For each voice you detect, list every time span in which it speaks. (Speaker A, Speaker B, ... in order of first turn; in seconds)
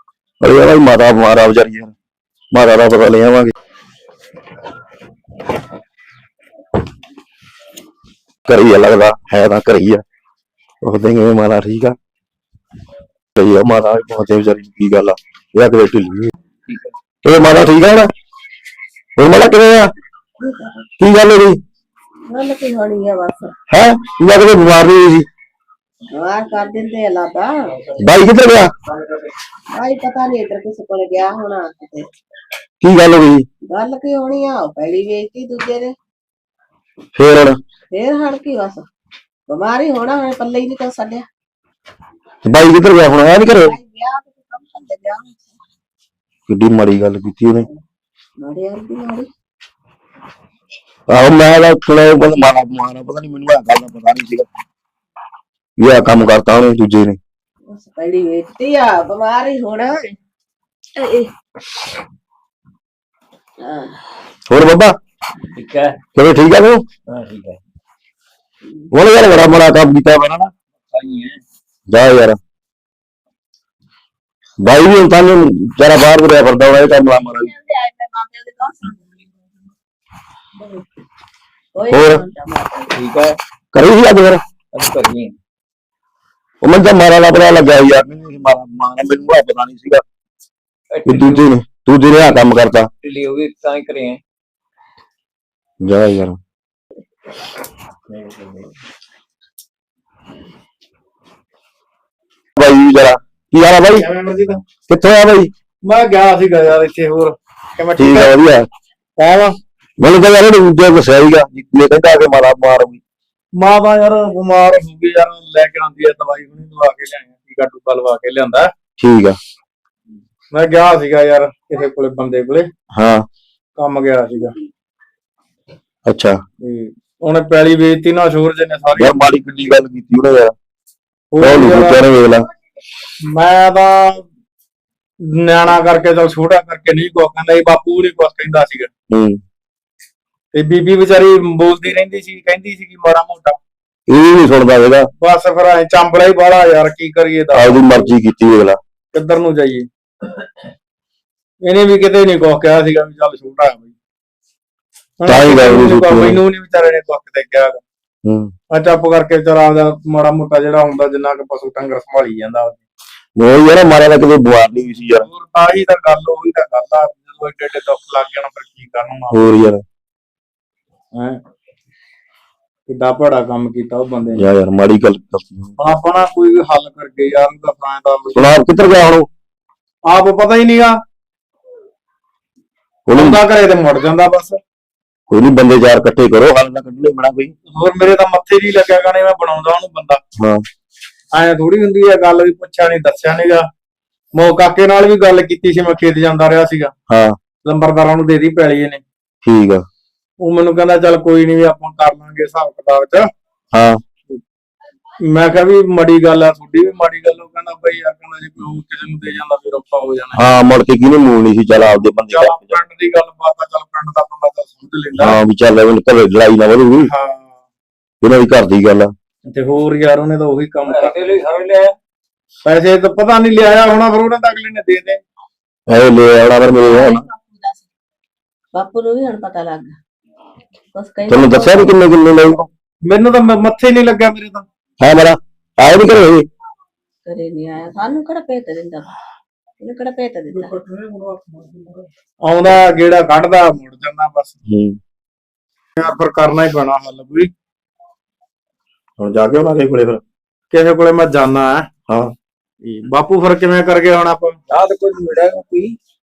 Speaker A: 0.4-1.9, 2.5-3.5, 8.4-10.0, 10.8-12.0, 13.4-16.3, 17.2-18.1, 19.2-19.9, 21.0-21.6, 23.7-25.3, 28.0-28.7, 32.8-33.5, 37.1-37.6, 42.4-43.8, 46.5-47.7, 51.1-54.5, 55.8-57.2, 64.5-65.0, 66.2-66.8, 68.9-70.5, 71.9-72.4, 74.6-77.5, 81.9-82.2, 83.7-84.4, 86.6-90.0, 91.0-92.9, 95.8-96.4, 102.6-104.0, 104.8-105.5, 108.0-108.7, 110.0-113.0, 119.0-119.4, 122.9-123.2, 126.1-126.4, 128.9-130.5, 131.4-132.4, 139.1-139.4, 144.1-145.1, 147.5-148.8, 155.3-156.4, 158.2-158.5, 163.4-165.3, 169.3-169.8, 174.3-175.7, 178.3-179.3, 183.1-183.4, 185.3-187.5, 197.1-197.3, 199.4-199.8, 203.7-204.0, 210.3-212.8, 215.2-217.1, 218.2-219.1, 225.9-227.2, 231.3-232.7, 235.0-236.5, 244.7-245.0, 249.2-250.2
Speaker B: 20.4-20.7, 22.3-23.5, 26.1-27.7, 29.7-32.0, 33.6-35.9, 37.9-38.9, 39.5-41.2, 43.6-45.5, 48.4-49.3, 57.6-60.1, 61.0-61.3, 63.6-64.0, 77.4-79.0, 81.7-83.0, 226.8-227.8, 228.7-229.9, 230.9-232.0, 237.2-239.1, 239.8-240.8
Speaker C: 65.5-66.0, 67.1-67.6, 70.9-71.4, 82.9-83.3, 84.7-85.3, 90.9-91.5, 93.0-94.2, 98.1-98.7, 220.9-221.9, 254.7-255.9
Speaker D: 103.9-104.6, 105.8-108.3, 109.2-109.5, 113.5-118.7, 120.5-122.7, 123.8-124.5, 126.6-129.2, 131.3-132.0, 133.2-134.2, 135.2-138.9, 140.5-143.6, 145.2-147.9, 149.1-149.9, 151.6-153.9, 155.2-157.8, 158.7-162.8, 165.2-169.6, 171.1-171.4, 172.9-174.4, 175.8-178.5, 180.1-180.9, 183.1-184.6, 187.7-190.2, 191.3-193.7, 194.3-196.9, 197.6-199.0, 200.4-203.2, 205.2-210.4, 212.3-215.4, 217.1-217.6, 219.4-221.2, 222.6-225.2, 233.0-234.6, 242.4-244.5, 246.0-247.5, 250.7-251.9, 252.8-254.6